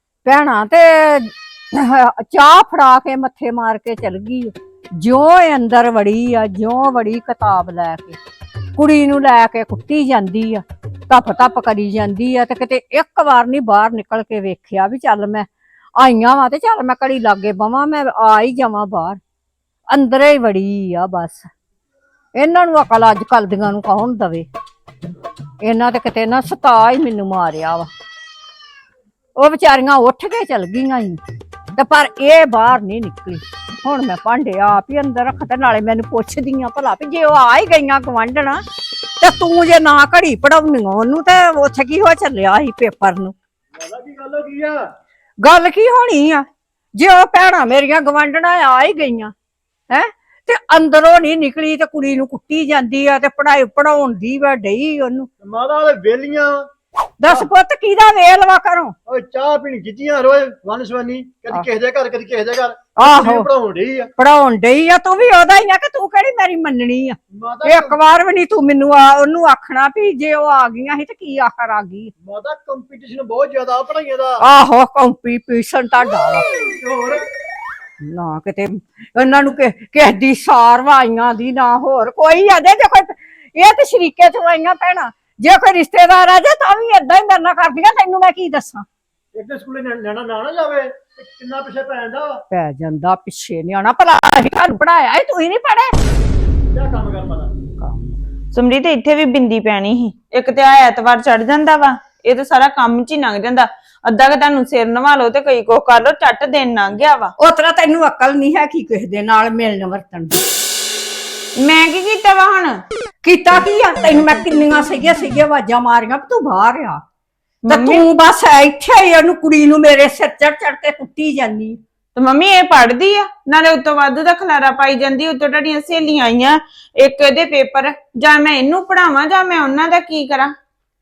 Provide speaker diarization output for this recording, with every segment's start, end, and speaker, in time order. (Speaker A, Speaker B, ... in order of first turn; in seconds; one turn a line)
Speaker A: 0.3-8.2
Speaker A: 8.8-15.5
Speaker A: 16.0-19.2
Speaker A: 19.9-21.5
Speaker A: 22.4-24.5
Speaker A: 25.6-27.9
Speaker A: 29.4-31.2
Speaker A: 31.8-38.6
Speaker A: 39.2-43.3
Speaker B: 43.8-44.8
Speaker A: 45.4-46.5
Speaker A: 47.0-49.3
Speaker A: 49.9-55.3
Speaker B: 55.4-56.7
Speaker A: 57.2-58.9
Speaker B: 59.1-64.1
Speaker A: 63.0-63.5
Speaker A: 64.2-72.1
Speaker B: 67.3-68.0
Speaker B: 72.2-74.4
Speaker A: 74.4-76.6
Speaker B: 76.8-77.2
Speaker A: 78.0-88.8
Speaker B: 89.3-92.4
Speaker A: 92.5-96.0
Speaker B: 96.7-97.5
Speaker A: 97.8-98.1
Speaker C: 98.5-107.3
Speaker A: 107.4-110.4
Speaker C: 111.6-112.8
Speaker A: 113.2-117.0
Speaker C: 117.7-118.0
Speaker A: 117.7-121.8
Speaker C: 122.2-130.5